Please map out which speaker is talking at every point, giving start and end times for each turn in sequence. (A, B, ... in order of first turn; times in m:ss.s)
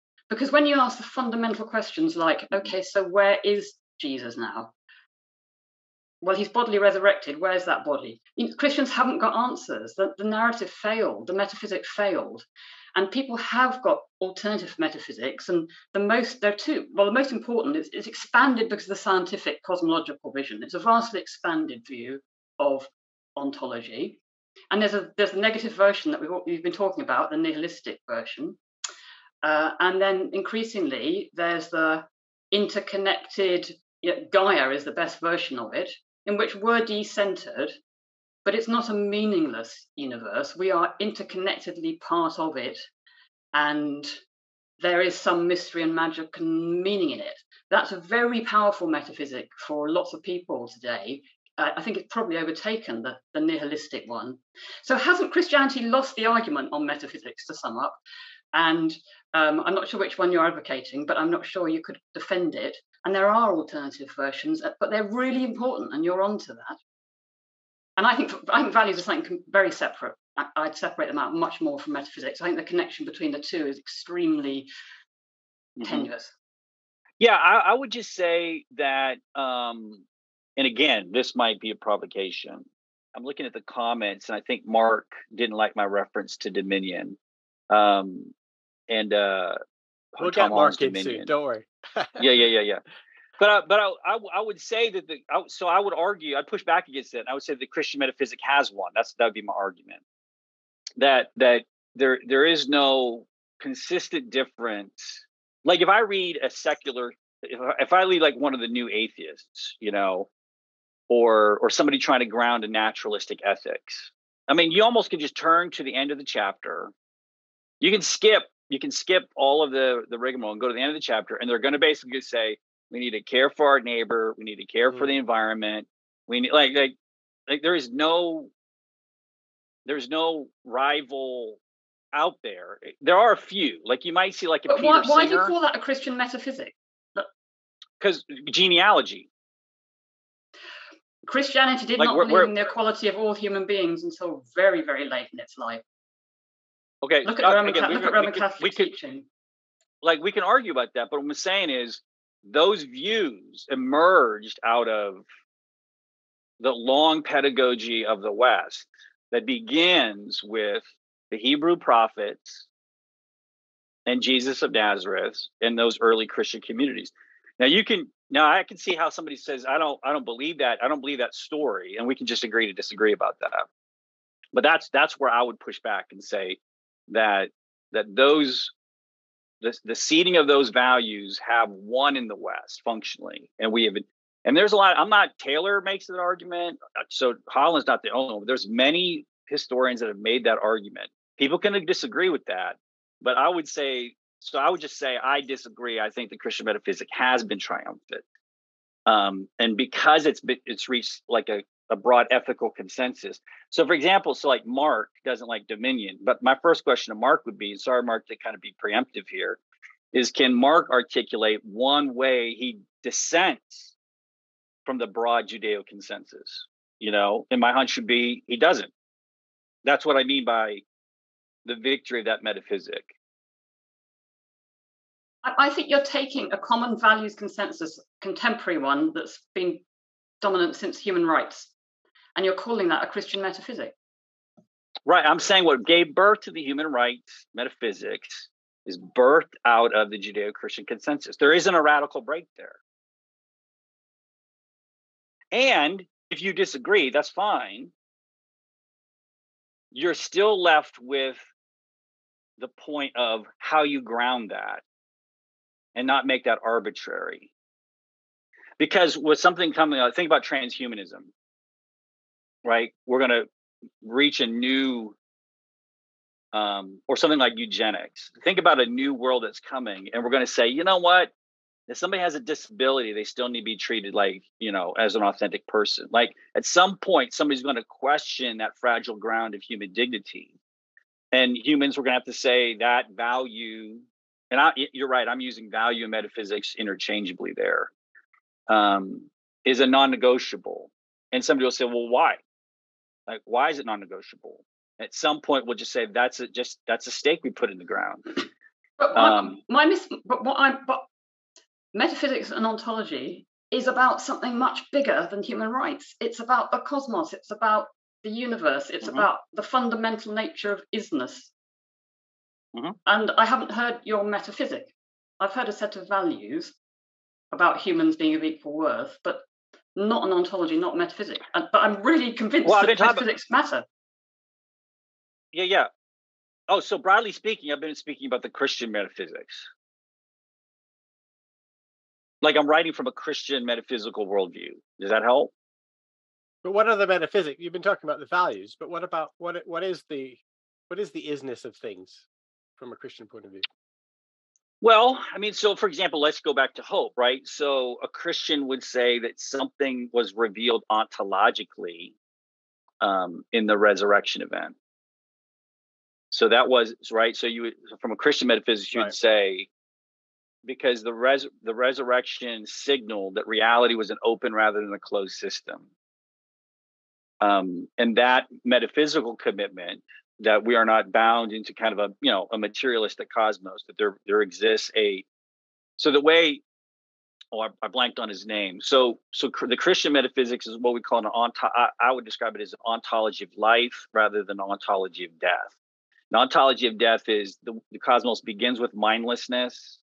0:00.3-0:04.7 A
0:06.2-0:24.2 A
0:24.7-0:28.6 A
0:29.4-0:37.8 A
0:38.4-0:42.8 A
0:43.5-0:44.2 A
0:44.8-0:58.0 A
0:58.5-1:06.8 A
1:08.0-1:14.7 A
1:15.8-1:16.1 B
1:15.8-1:16.3 A
1:17.2-1:20.0 B
1:20.6-1:27.2 B
1:27.7-1:28.3 B
1:28.9-1:29.6 B
1:30.1-1:31.3 B
1:30.2-1:32.4 C
1:32.2-1:32.8 B
1:33.4-1:40.0 B
1:41.0-1:50.3 B
1:51.1-1:56.9 B
1:57.8-2:06.9 B
2:04.9-2:05.2 C
2:07.5-2:08.5 B
2:09.8-2:11.6 B
2:12.1-2:15.5 B
2:14.7-2:17.3 A
2:18.0-2:19.3 B
2:21.2-2:25.8 A
2:22.0-2:22.7 B
2:27.0-2:28.9 B
2:27.2-2:29.2 A
2:30.0-2:35.2 B
2:36.6-2:42.6 B
2:44.1-2:53.6 B
2:54.5-2:56.6 B
2:57.1-2:58.7 B
2:59.6-3:18.2 B
3:19.1-3:29.6 B
3:30.1-3:33.9 B
3:34.8-3:38.9 B
3:39.8-3:40.8 B
3:41.6-3:43.1 B
3:45.4-3:49.8 A
3:50.4-3:51.7 A
3:52.4-3:53.9 A
3:55.0-4:02.8 B
4:05.5-4:07.9 B
4:09.9-4:11.4 B
4:12.6-4:14.8 B
4:15.9-4:17.5 B
4:18.8-4:21.3 B
4:22.6-4:23.5 B
4:24.0-4:25.2 B
4:26.5-4:31.3 B
4:31.9-4:40.5 B
4:41.3-4:47.9 B
4:48.7-4:52.4 B
4:53.3-4:58.4 B
4:59.0-5:01.1 A
4:59.1-4:59.6 B
5:01.9-5:11.5 A
5:13.0-5:16.7 A
5:17.5-5:19.4 A
5:19.9-5:23.8 A
5:22.6-5:23.2 B
5:25.5-5:25.9 B
5:26.7-5:29.7 B
5:32.4-5:35.5 B
5:36.6-5:42.2 C
5:42.8-5:43.6 C
5:44.8-5:52.1 B
5:53.0-5:54.7 B
5:56.3-5:59.7 B
6:00.6-6:05.9 B
6:07.4-6:15.2 B
6:16.0-6:16.6 B
6:17.5-6:25.7 B
6:26.3-6:30.0 B